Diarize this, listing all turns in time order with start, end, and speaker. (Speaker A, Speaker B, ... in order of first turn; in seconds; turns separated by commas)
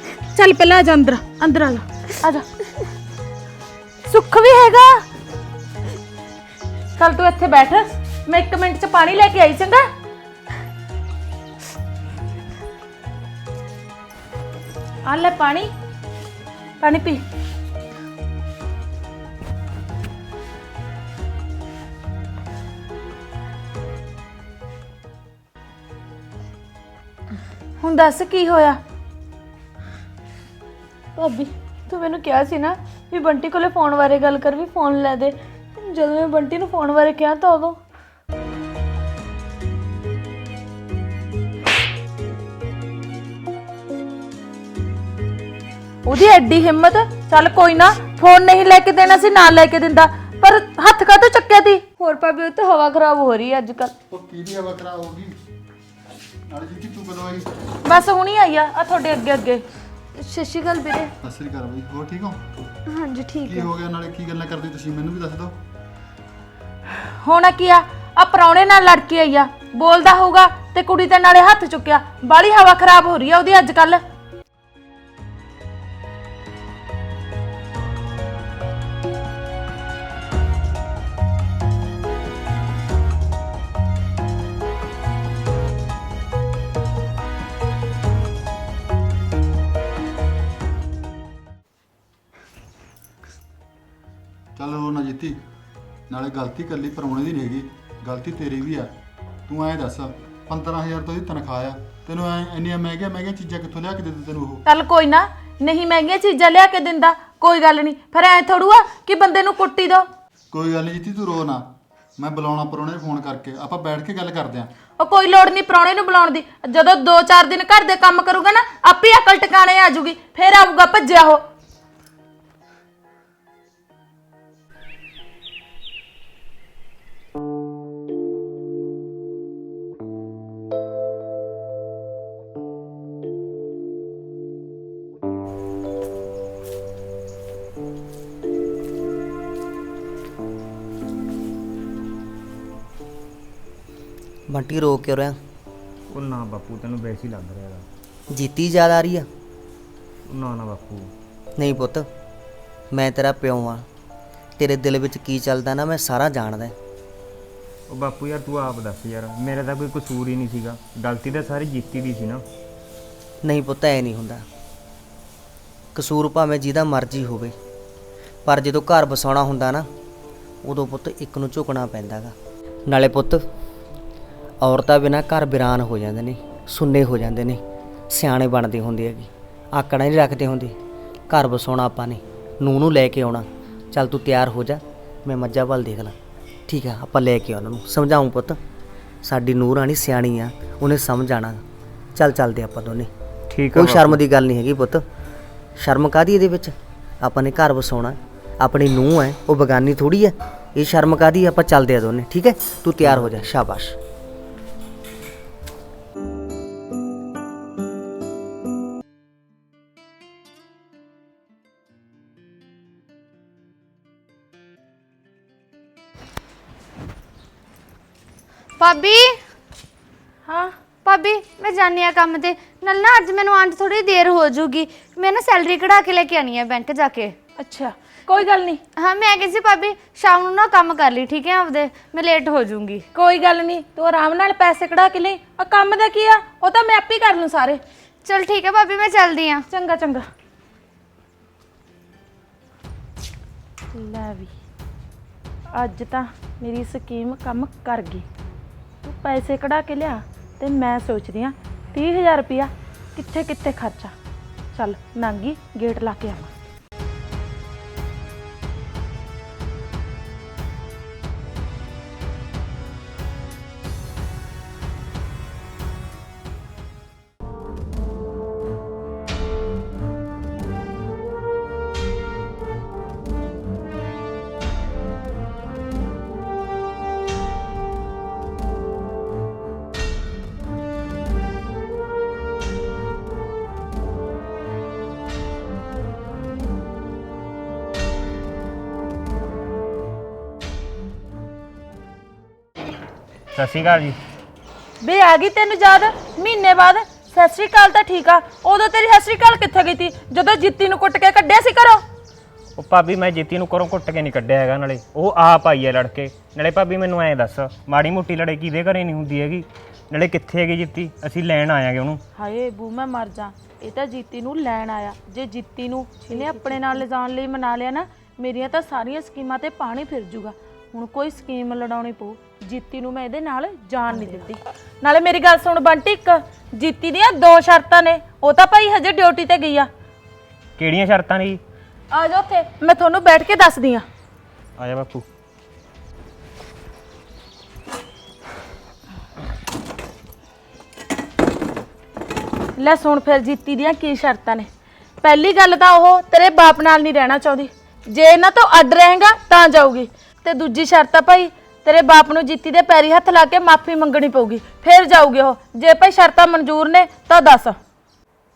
Speaker A: 0.3-2.5, Speaker A: 4.1-5.0, Speaker A: 7.0-9.9, Speaker A: 15.1-15.7, Speaker A: 16.8-17.2, Speaker A: 27.8-28.8, Speaker B: 31.2-37.8, Speaker A: 46.1-51.8, Speaker B: 52.0-53.9, Speaker C: 54.1-55.3, Speaker C: 56.5-57.5, Speaker A: 57.9-59.6, Speaker B: 60.2-61.1, Speaker C: 61.2-62.6, Speaker B: 62.9-63.7, Speaker C: 63.5-65.6, Speaker A: 67.2-74.0, Speaker C: 94.6-95.4, Speaker C: 96.1-98.9, Speaker C: 99.5-104.6, Speaker A: 104.7-110.1, Speaker C: 110.5-111.6, Speaker C: 112.2-114.7, Speaker A: 115.0-121.4, Speaker D: 144.5-145.4, Speaker E: 146.1-147.9, Speaker D: 148.3-149.3, Speaker E: 150.3-151.1, Speaker D: 151.6-152.1, Speaker D: 152.9-153.8, Speaker D: 154.6-156.8, Speaker E: 157.9-162.4, Speaker D: 163.4-164.4, Speaker D: 165.9-167.6, Speaker D: 168.5-169.9, Speaker D: 170.6-172.3, Speaker D: 172.9-173.4, Speaker D: 174.6-180.8, Speaker D: 181.3-186.2, Speaker D: 186.7-188.6, Speaker D: 189.2-191.6, Speaker D: 192.2-193.1, Speaker E: 193.5-194.2, Speaker D: 193.7-195.0, Speaker D: 195.8-204.0, Speaker E: 203.1-203.4, Speaker B: 218.8-219.4, Speaker A: 220.5-220.8, Speaker B: 221.1-227.4, Speaker A: 227.6-228.8, Speaker B: 229.0-233.1, Speaker A: 233.1-237.8, Speaker B: 238.2-239.7, Speaker A: 239.7-240.3, Speaker A: 243.9-244.5, Speaker A: 245.7-248.2, Speaker A: 249.0-254.1, Speaker A: 254.7-256.5, Speaker E: 293.5-294.2, Speaker A: 295.0-302.0, Speaker E: 302.8-312.2, Speaker A: 312.4-329.9, Speaker E: 330.8-331.6, Speaker A: 332.1-334.1, Speaker E: 334.8-335.2, Speaker A: 342.8-344.7, Speaker A: 345.2-357.8